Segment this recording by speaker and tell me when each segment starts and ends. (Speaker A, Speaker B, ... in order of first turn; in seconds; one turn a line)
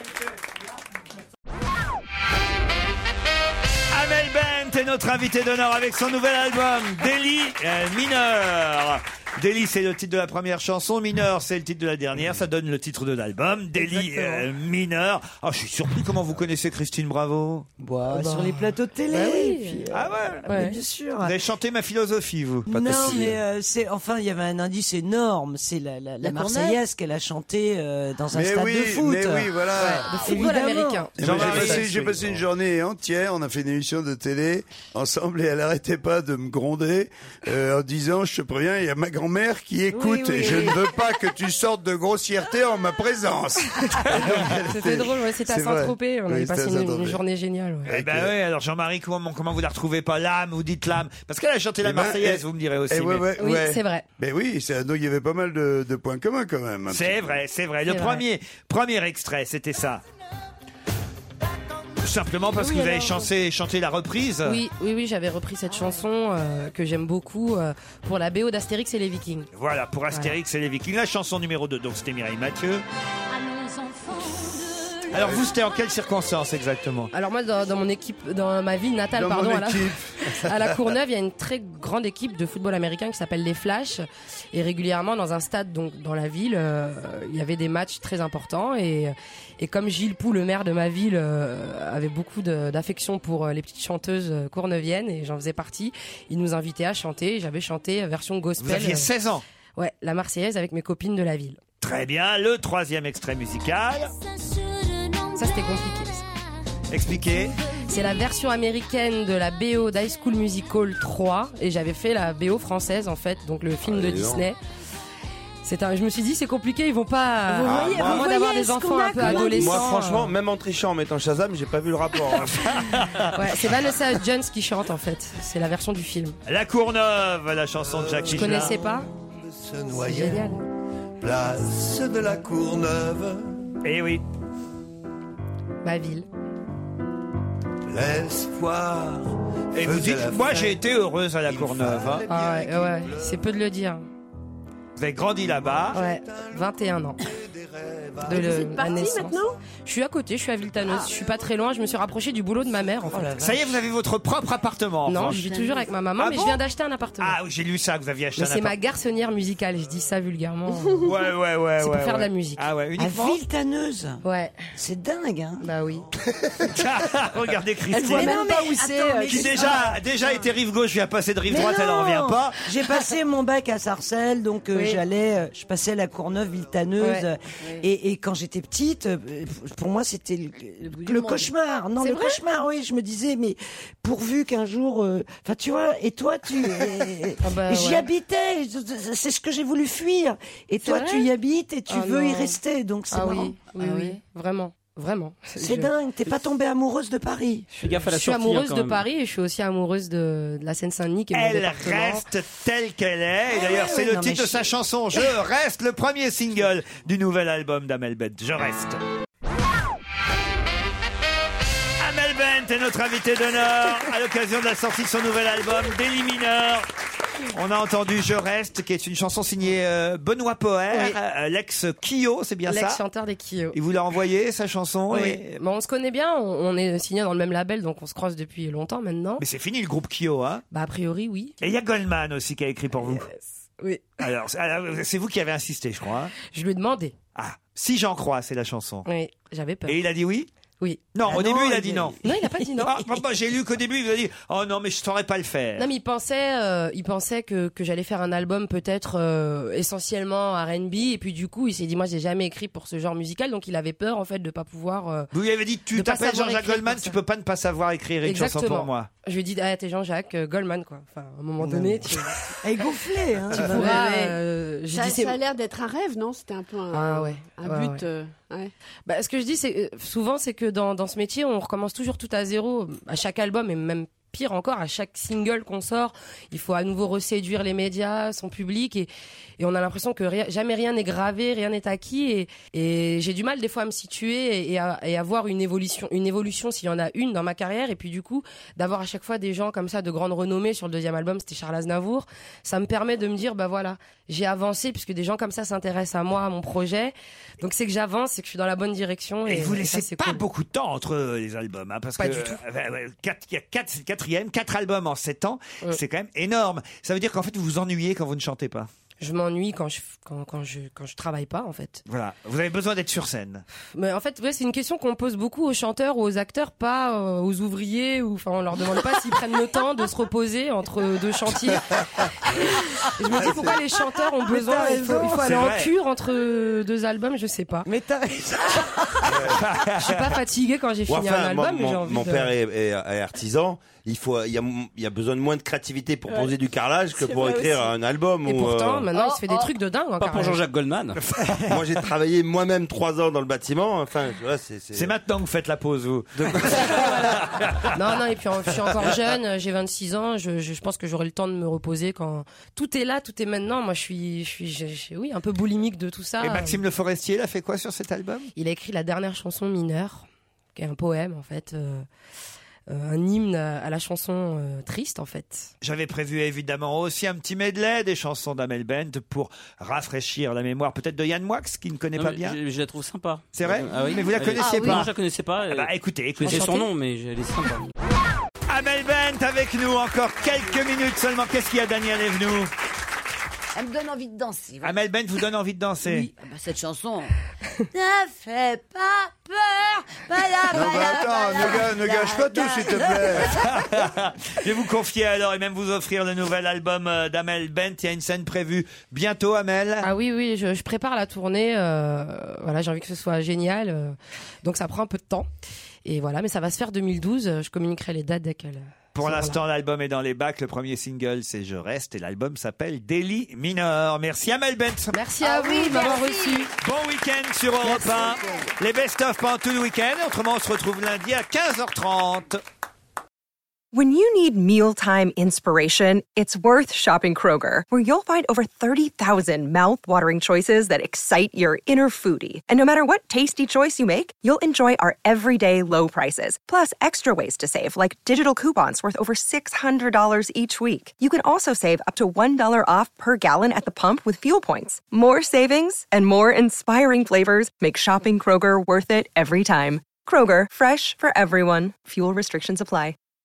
Speaker A: 3.9-17.7
Speaker B: 13.8-14.5
Speaker C: 17.8-21.4
Speaker B: 18.1-19.8
Speaker A: 19.9-20.5
Speaker B: 20.5-20.8
Speaker A: 21.2-22.7
Speaker D: 22.7-23.4
Speaker C: 22.7-31.1
Speaker E: 26.2-26.8
Speaker F: 28.3-30.1
Speaker B: 29.8-31.9
Speaker F: 31.2-47.2
Speaker A: 31.2-32.3
Speaker C: 39.9-40.9
Speaker B: 44.6-47.9
Speaker A: 47.9-53.3
Speaker F: 47.9-48.3
Speaker F: 51.8-57.4
Speaker B: 53.4-54.0
Speaker A: 56.9-60.0
Speaker B: 57.9-58.2
Speaker A: 62.0-64.6
Speaker B: 62.6-63.3
Speaker B: 64.5-69.5
Speaker A: 69.5-72.8
Speaker E: 73.3-75.1
Speaker A: 75.1-77.1
Speaker B: 77.1-99.1
Speaker F: 79.2-80.7
Speaker A: 98.6-99.4
Speaker B: 99.8-101.6
Speaker A: 101.8-104.1
Speaker B: 105.3-106.2
Speaker A: 106.9-107.6
Speaker B: 107.8-114.6
Speaker D: 113.8-114.5
Speaker B: 115.6-120.3
Speaker G: 117.5-119.8
Speaker D: 117.6-118.3
Speaker D: 119.2-122.7
Speaker A: 122.4-123.4
Speaker B: 123.3-126.4
Speaker A: 126.5-128.8
Speaker H: 127.8-130.5
Speaker B: 128.3-129.1
Speaker B: 129.9-130.6
Speaker H: 131.2-133.6
Speaker A: 133.8-134.2
Speaker B: 135.8-136.3
Speaker H: 137.9-140.8
Speaker A: 139.8-142.2
Speaker H: 141.5-143.5
Speaker B: 142.3-144.1
Speaker A: 145.0-146.1
Speaker H: 145.5-146.6
Speaker B: 145.9-147.2
Speaker H: 147.3-148.4
Speaker B: 148.2-153.4
Speaker G: 148.3-149.6
Speaker C: 153.1-153.8
Speaker A: 153.4-155.4
Speaker B: 155.1-157.4
Speaker G: 155.4-155.8
Speaker A: 156.2-156.6
Speaker A: 157.2-158.8
Speaker B: 158.4-161.1
Speaker G: 160.7-161.1
Speaker A: 161.1-163.4
Speaker B: 161.8-162.7
Speaker C: 163.0-164.2
Speaker B: 164.2-164.7
Speaker C: 164.8-165.7
Speaker B: 165.6-166.1
Speaker A: 166.7-168.4
Speaker G: 167.9-169.8
Speaker C: 168.1-170.3
Speaker A: 169.3-172.6
Speaker C: 171.5-194.0
Speaker B: 174.7-175.0
Speaker B: 177.0-177.3
Speaker G: 180.8-182.2
Speaker B: 182.0-182.4
Speaker B: 187.4-188.1
Speaker B: 190.8-191.3
Speaker B: 191.9-192.6
Speaker B: 193.1-195.9
Speaker G: 193.7-194.1
Speaker C: 195.6-197.7
Speaker B: 197.7-202.3
Speaker I: 197.8-199.0
Speaker A: 201.3-209.0
Speaker C: 203.5-204.8
Speaker A: 212.0-216.9
Speaker A: 217.5-223.0
Speaker B: 220.9-221.2
Speaker B: 222.7-223.8
Speaker A: 223.7-225.6
Speaker B: 225.1-229.4
Speaker A: 229.4-230.6
Speaker B: 230.7-231.6
Speaker A: 231.6-233.3
Speaker B: 233.0-234.1
Speaker A: 234.2-236.3
Speaker B: 236.4-237.2
Speaker A: 237.3-239.1
Speaker B: 239.1-240.0
Speaker A: 239.9-240.5
Speaker B: 240.8-243.1
Speaker A: 241.1-242.2
Speaker A: 242.8-245.9
Speaker B: 245.8-255.3
Speaker A: 255.3-259.1
Speaker B: 255.9-257.2
Speaker B: 258.2-262.6
Speaker C: 261.6-264.4
Speaker B: 263.5-265.4
Speaker G: 263.7-264.2
Speaker G: 264.9-268.7
Speaker B: 266.9-268.0
Speaker B: 269.1-300.4
Speaker A: 299.5-308.9
Speaker B: 302.2-302.6
Speaker B: 309.2-312.0
Speaker A: 312.1-313.6
Speaker B: 313.9-327.9
Speaker C: 324.5-325.5
Speaker A: 325.4-325.9
Speaker C: 327.9-329.6
Speaker A: 329.7-330.2
Speaker B: 330.0-332.5
Speaker D: 331.1-339.1
Speaker G: 336.3-336.6
Speaker G: 337.1-337.9
Speaker B: 338.4-340.6
Speaker E: 339.1-339.7
Speaker I: 340.2-341.2
Speaker A: 341.4-341.8
Speaker D: 341.7-345.1
Speaker A: 344.9-347.9
Speaker B: 346.9-356.8
Speaker A: 356.4-358.5
Speaker B: 358.6-362.1
Speaker B: 362.9-365.7
Speaker A: 365.8-372.6
Speaker I: 372.2-377.9
Speaker A: 373.6-375.1
Speaker E: 374.6-375.0
Speaker A: 375.7-376.9
Speaker A: 378.7-382.7
Speaker E: 383.8-384.9
Speaker A: 384.8-386.3
Speaker E: 386.0-387.3
Speaker E: 387.9-393.6
Speaker F: 390.7-393.6
Speaker A: 393.5-400.1
Speaker B: 400.0-405.5
Speaker B: 406.1-409.6
Speaker A: 409.1-415.1
Speaker B: 415.1-416.7
Speaker E: 415.4-416.7
Speaker A: 416.8-422.6
Speaker E: 417.9-418.6
Speaker J: 423.9-453.2